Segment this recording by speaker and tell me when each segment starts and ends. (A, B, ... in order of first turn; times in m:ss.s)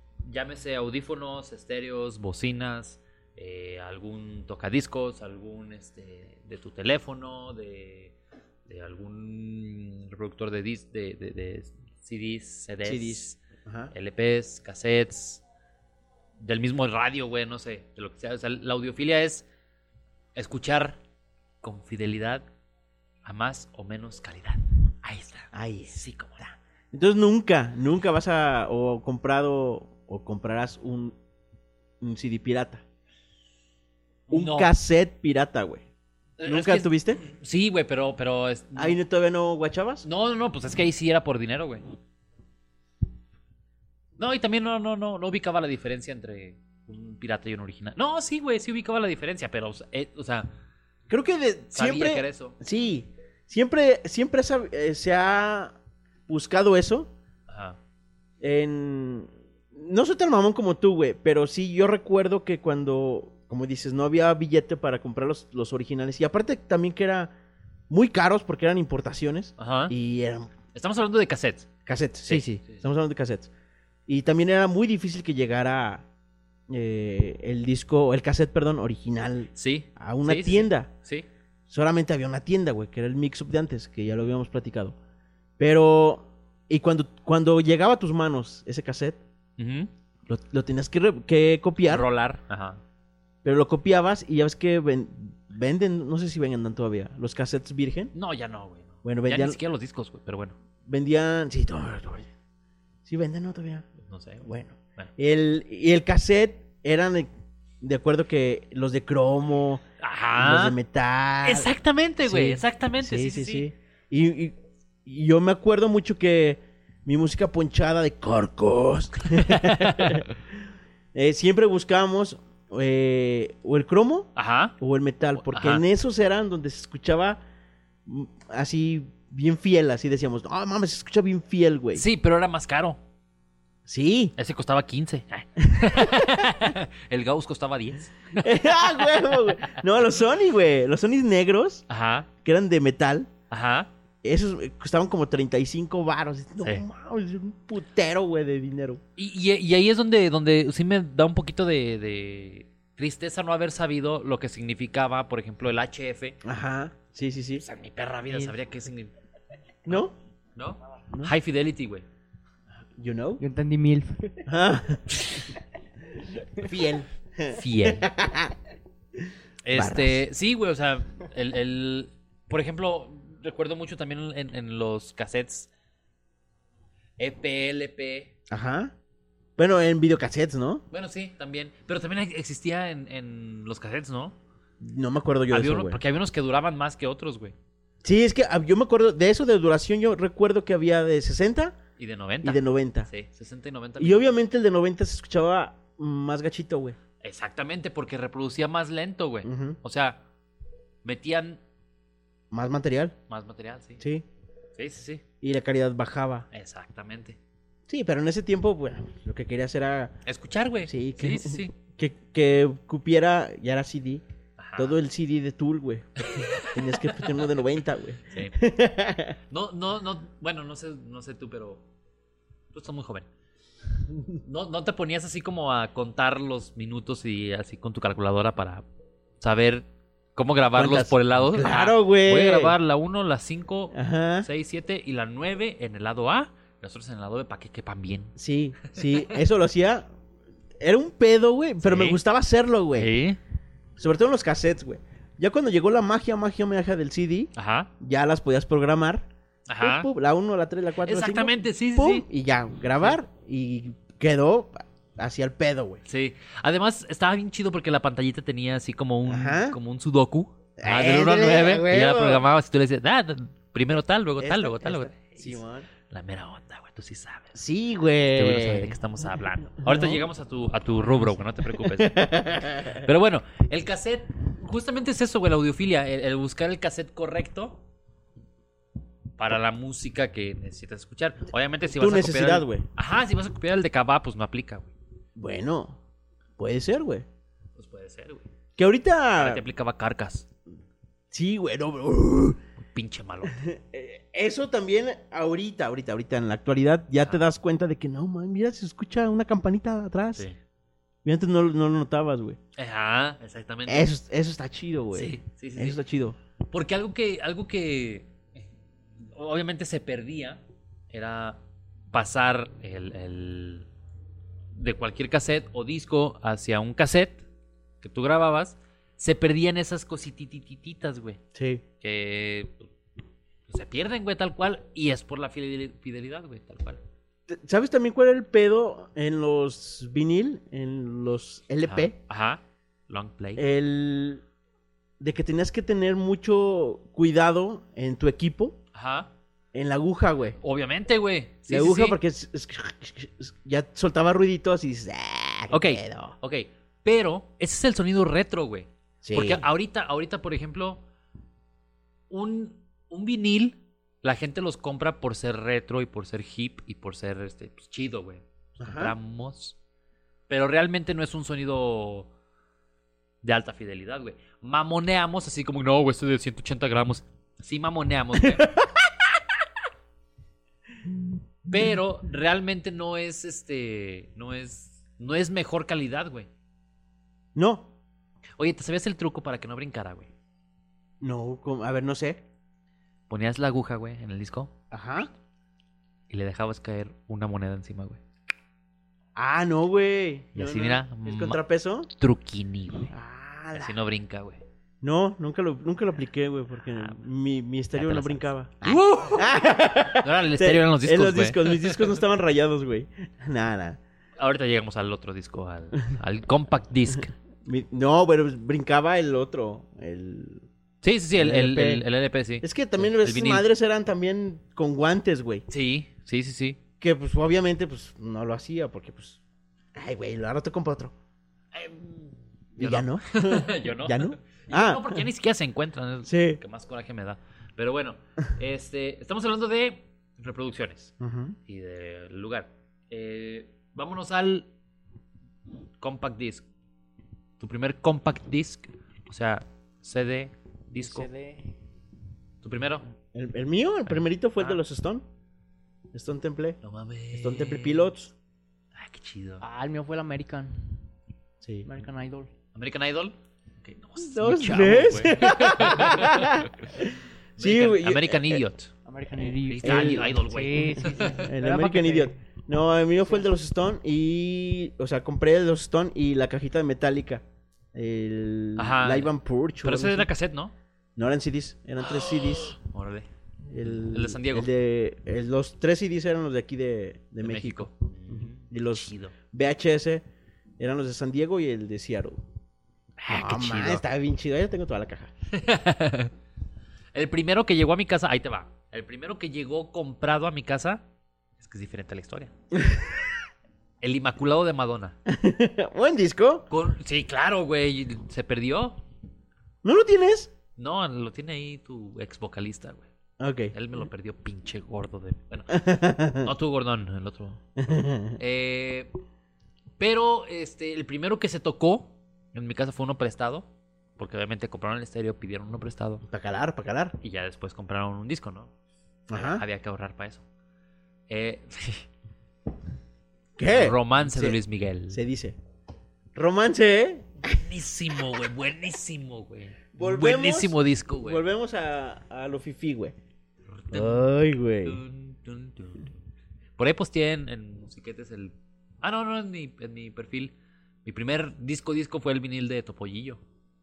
0:00.2-0:08.1 A
0:08.6-0:15.4 A
0:12.8-0:13.9 B
0:16.4-0:19.4 A
0:20.3-0:21.0 A
0:21.6-0:22.4 A
0:23.2-0:26.4 A
0:25.5-0:31.2 B
0:32.0-0:32.8 B
0:34.3-0:34.7 A
0:34.3-0:35.8 B
0:36.4-0:39.0 A
0:36.4-0:37.2 B
0:38.8-0:40.0 B
0:40.0-0:41.8 A
0:44.2-0:50.5 A
0:51.1-0:55.7 B
0:51.7-0:52.6 A
0:56.3-0:57.1 B
0:57.5-0:57.8 A
0:58.4-1:07.3 B
1:07.9-1:10.5 B
1:09.6-1:10.0 A
1:10.7-1:11.7 A
1:11.8-1:13.5 B
1:12.2-1:12.8 A
1:14.1-1:16.0 B
1:16.7-1:20.9 B
1:19.5-1:21.3 A
1:21.7-1:25.0 B
1:25.6-1:29.2 B
1:29.6-1:29.9 A
1:30.3-1:32.0 B
1:31.9-1:32.8 A
1:33.4-1:38.1 B
1:38.1-1:40.5 A
1:39.0-1:39.6 B
1:40.8-1:42.3 B
1:43.0-1:43.8 B
1:44.0-1:45.1 A
1:44.4-1:47.3 B
1:47.8-1:49.8 B
1:50.0-1:50.8 A
1:50.3-1:51.7 B
1:51.4-1:53.7 A
1:52.2-2:00.3 B
1:59.3-2:00.2 A
2:01.1-2:07.4 B
2:04.4-2:04.8 A
2:05.4-2:05.8 A
2:08.0-2:12.0 B
2:11.9-2:13.0 A
2:13.8-2:14.3 B
2:14.4-2:19.8 A
2:15.7-2:16.7 B
2:18.4-2:21.8 B
2:21.9-2:22.3 A
2:22.4-2:23.3 B
2:23.5-2:23.9 A
2:24.2-2:29.0 B
2:29.2-2:36.4 A
2:36.4-2:37.6 B
2:37.6-2:39.1 A
2:38.3-2:38.5 B
2:39.8-2:40.1 B
2:39.9-2:42.0 A
2:43.0-2:43.4 B
2:43.4-2:44.4 C
2:44.4-2:45.4 B
2:46.5-2:48.6 B
2:47.5-2:48.1 A
2:49.2-2:50.2 B
2:49.6-2:55.7 A
2:57.2-2:58.3 A
2:58.5-2:58.9 B
2:59.6-3:00.8 B
3:00.9-3:04.4 A
3:04.8-3:06.0 B
3:05.5-3:07.5 A
3:08.0-3:11.8 B
3:12.0-3:14.3 A
3:12.4-3:13.1 B
3:14.0-3:17.0 B
3:17.2-3:20.2 A
3:19.4-3:19.8 B
3:21.0-3:21.6 A
3:22.5-3:23.2 B
3:23.3-3:24.0 A
3:24.0-3:24.2 B
3:24.7-3:25.2 A
3:25.4-3:26.5 B
3:26.5-3:27.4 A
3:27.9-3:30.2 B
3:30.2-3:31.7 A
3:30.8-3:34.2 B
3:34.6-3:35.0 A
3:34.8-3:39.4 B
3:36.2-3:37.6 A
3:38.3-3:38.6 A
3:39.5-3:41.8 A
3:42.7-3:43.2 A
3:44.4-3:48.8 A
3:49.4-3:59.3 A
3:50.7-3:52.7 B
3:53.9-3:54.5 B
3:58.4-4:00.1 B
4:00.8-4:03.1 B
4:01.8-4:02.2 A
4:03.0-4:03.4 A
4:04.0-4:09.3 B
4:07.5-4:07.9 A
4:09.7-4:10.1 A
4:09.8-4:16.0 B
4:11.0-4:12.2 A
4:16.0-4:27.5 A
4:19.2-4:19.8 B
4:20.8-4:22.4 B
4:24.4-4:25.9 B
4:27.5-4:29.0 B
4:28.3-4:37.8 A
4:29.7-4:30.3 B
4:31.8-4:33.0 B
4:39.4-4:44.9 A
4:41.9-4:42.8 B
4:45.4-4:46.0 B
4:46.6-4:47.2 B
4:47.8-4:48.5 A
4:48.8-4:49.6 B
4:49.4-4:50.5 A
4:51.3-4:52.6 B
4:52.8-4:53.6 A
4:53.4-5:00.5 B
5:01.2-5:02.6 B
5:02.8-5:04.1 A
5:03.8-5:06.4 B
5:05.1-5:06.0 A
5:06.7-5:08.6 A
5:09.2-5:11.6 A
5:12.1-5:13.9 A
5:14.7-5:17.4 A
5:18.0-5:21.4 A
5:21.5-5:21.8 B
5:22.0-5:22.8 A
5:23.7-5:27.0 A
5:27.5-5:32.2 B
5:31.8-5:33.6 A
5:33.6-5:34.4 B
5:35.2-5:38.8 B
5:38.9-5:39.3 A
5:39.7-5:40.6 B
5:40.6-5:42.2 A
5:41.7-5:46.4 B
5:45.7-5:51.0 A
5:49.2-5:49.6 B
5:52.3-5:59.8 A
5:58.8-5:59.1 B
6:00.5-6:02.3 A
6:03.4-6:08.8 A
6:08.4-6:09.2 B
6:11.7-6:16.5 A
6:17.5-6:17.9 B
6:18.6-6:20.3 A
6:21.2-6:22.4 B
6:23.3-6:24.7 A
6:24.9-6:25.3 B
6:26.3-6:28.2 A
6:29.3-6:32.1 B
6:30.5-6:31.6 A
6:32.2-6:33.1 A
6:33.1-6:33.9 B
6:33.7-6:34.6 A
6:35.0-6:44.0 B
6:37.9-6:39.6 A
6:40.1-6:42.2 A
6:44.4-6:47.3 A
6:47.6-6:50.7 B
6:51.0-6:53.7 A
6:51.3-6:52.0 B
6:52.6-6:55.6 B
6:55.7-6:56.8 A
6:57.0-6:59.4 B
6:59.9-7:01.1 B
7:01.7-7:11.1 A
7:02.7-7:05.2 B
7:06.2-7:06.6 B
7:11.2-7:11.6 B
7:11.7-7:14.7 A
7:16.0-7:16.6 A
7:17.6-7:21.3 A
7:21.0-7:21.6 C
7:22.6-7:23.0 A
7:23.3-7:25.2 B
7:24.1-7:24.8 A
7:26.1-7:26.8 B
7:26.8-7:28.1 A
7:27.3-7:28.3 B
7:28.9-7:29.6 A
7:29.6-7:31.0 C
7:31.6-7:31.9 B
7:31.8-7:32.5 C
7:32.7-7:36.7 A
7:34.2-7:38.6 B
7:37.6-7:38.9 A
7:39.0-7:42.4 C
7:39.6-7:41.4 A
7:39.8-7:40.4 B
7:41.0-7:47.4 B
7:47.9-7:50.3 B
7:48.8-7:50.7 A
7:51.2-7:52.8 B
7:52.1-7:53.3 A
7:53.7-8:00.2 B
7:53.8-7:54.7 A
7:57.4-7:59.3 A
8:00.8-8:02.4 B
8:03.2-8:04.0 A
8:03.3-8:05.3 B
8:05.5-8:06.3 A
8:07.1-8:11.0 A
8:11.6-8:12.5 A
8:12.7-8:13.1 B
8:14.0-8:15.2 A
8:15.3-8:16.7 B
8:16.7-8:19.0 A
8:19.8-8:20.5 B
8:20.8-8:23.1 A
8:23.4-8:23.7 B
8:23.7-8:27.6 A
8:25.7-8:26.5 B
8:27.8-8:28.4 B
8:28.4-8:29.1 A
8:30.0-8:36.2 A
8:36.2-8:37.2 B
8:37.2-8:38.7 A
8:39.3-8:39.6 B
8:39.3-8:40.4 A
8:41.3-8:42.1 A
8:43.6-8:44.6 B
8:43.6-8:45.2 A
8:45.1-8:45.6 B
8:46.3-8:47.6 B
8:47.4-8:51.4 A
8:49.9-8:53.1 B
8:53.7-8:54.3 A
8:53.9-8:55.0 B
8:54.8-8:56.1 A
8:56.8-9:00.5 A
9:01.0-9:03.4 A